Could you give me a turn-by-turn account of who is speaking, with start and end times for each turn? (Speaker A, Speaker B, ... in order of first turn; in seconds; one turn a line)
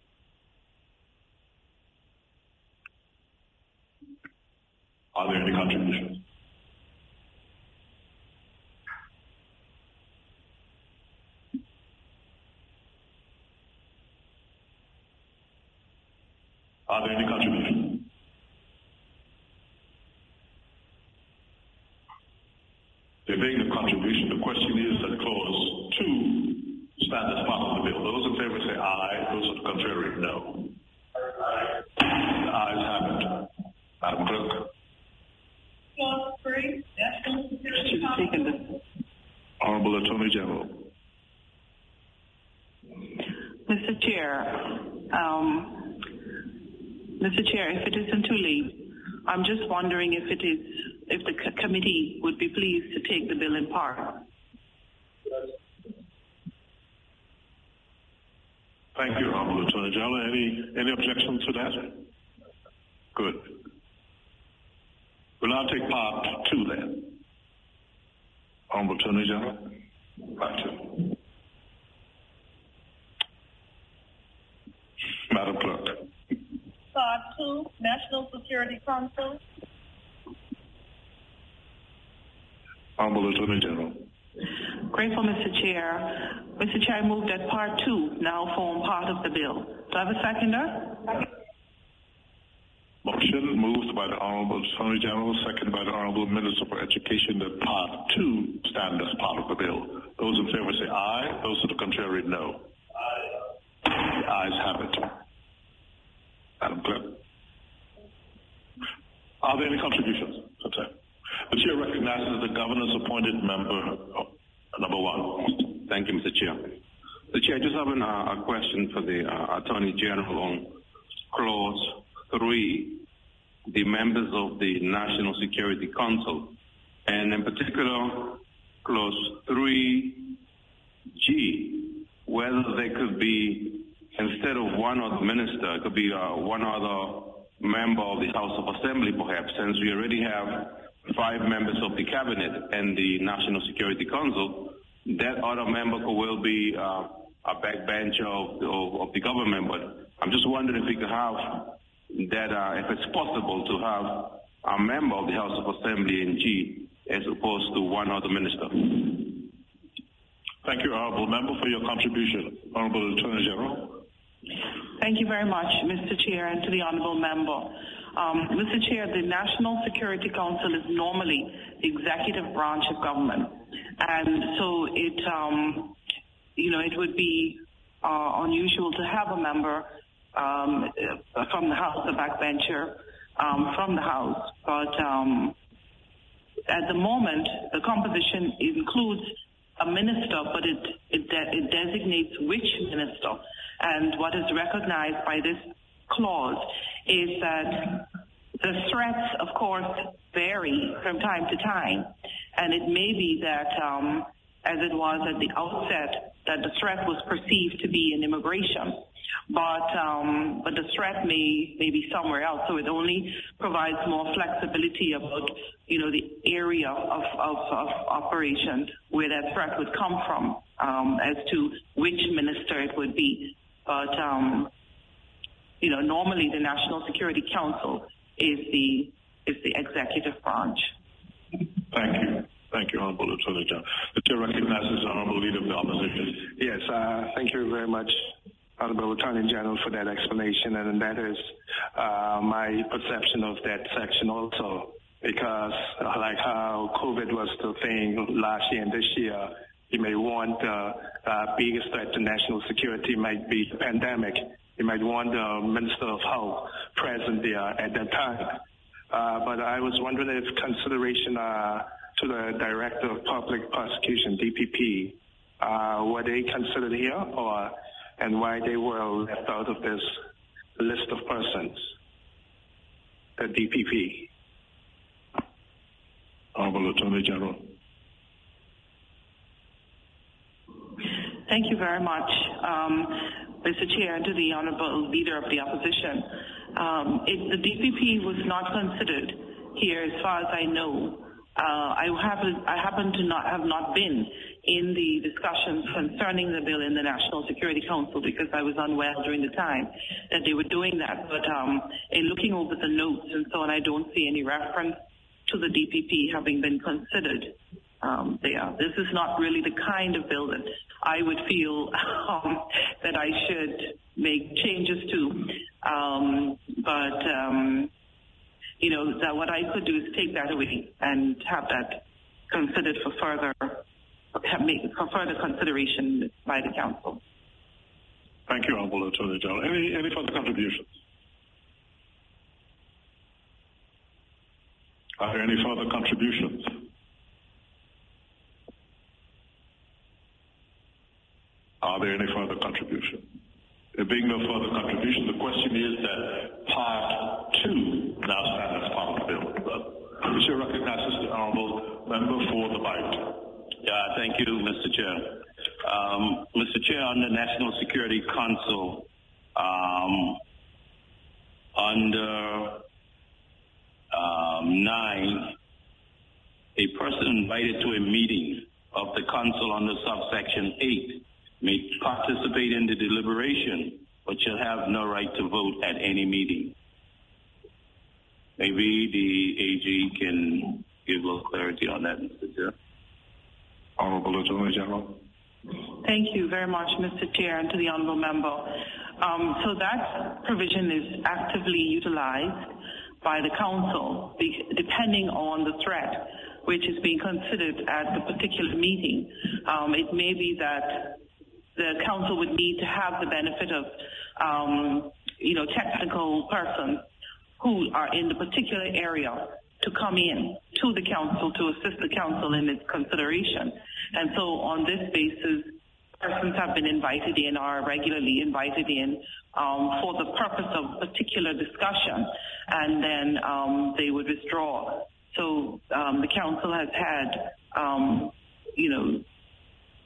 Speaker A: 5.1-6.2
Speaker A: 16.9-18.1
Speaker A: 23.2-30.7
Speaker A: 32.0-34.7
Speaker B: 36.0-38.3
Speaker C: 37.7-38.8
Speaker A: 39.6-40.9
Speaker C: 43.6-46.0
Speaker C: 47.2-54.2
Speaker A: 58.9-62.0
Speaker A: 63.1-63.6
Speaker A: 65.4-67.2
Speaker A: 68.7-69.8
Speaker A: 70.3-71.1
Speaker A: 75.3-76.1
Speaker B: 76.9-79.4
Speaker A: 83.0-84.1
Speaker C: 84.8-91.2
Speaker A: 93.0-102.7
Speaker A: 103.8-105.2
Speaker A: 106.6-107.2
Speaker A: 109.4-110.9
Speaker A: 111.5-115.5
Speaker D: 115.5-116.8
Speaker D: 117.3-120.8
Speaker D: 121.3-123.0
Speaker D: 123.7-130.4
Speaker D: 131.1-159.5
Speaker A: 160.6-164.0
Speaker C: 165.0-176.0
Speaker C: 176.6-185.6
Speaker C: 186.7-224.7
Speaker C: 225.8-230.9
Speaker A: 231.9-236.4
Speaker E: 236.6-270.1
Speaker E: 270.8-271.9
Speaker E: 273.4-274.3
Speaker A: 276.5-277.7
Speaker C: 281.4-317.9
Speaker C: 318.8-323.8
Speaker C: 324.4-327.2
Speaker A: 328.5-330.9
Speaker A: 335.2-336.9
Speaker A: 341.8-343.4
Speaker A: 343.9-353.5
Speaker F: 353.8-360.4
Speaker F: 361.7-362.8
Speaker F: 364.1-365.6
Speaker F: 366.8-376.7
Speaker F: 378.6-382.7
Speaker A: 384.0-385.2
Speaker C: 386.0-401.2
Speaker C: 401.7-407.0
Speaker C: 407.6-429.2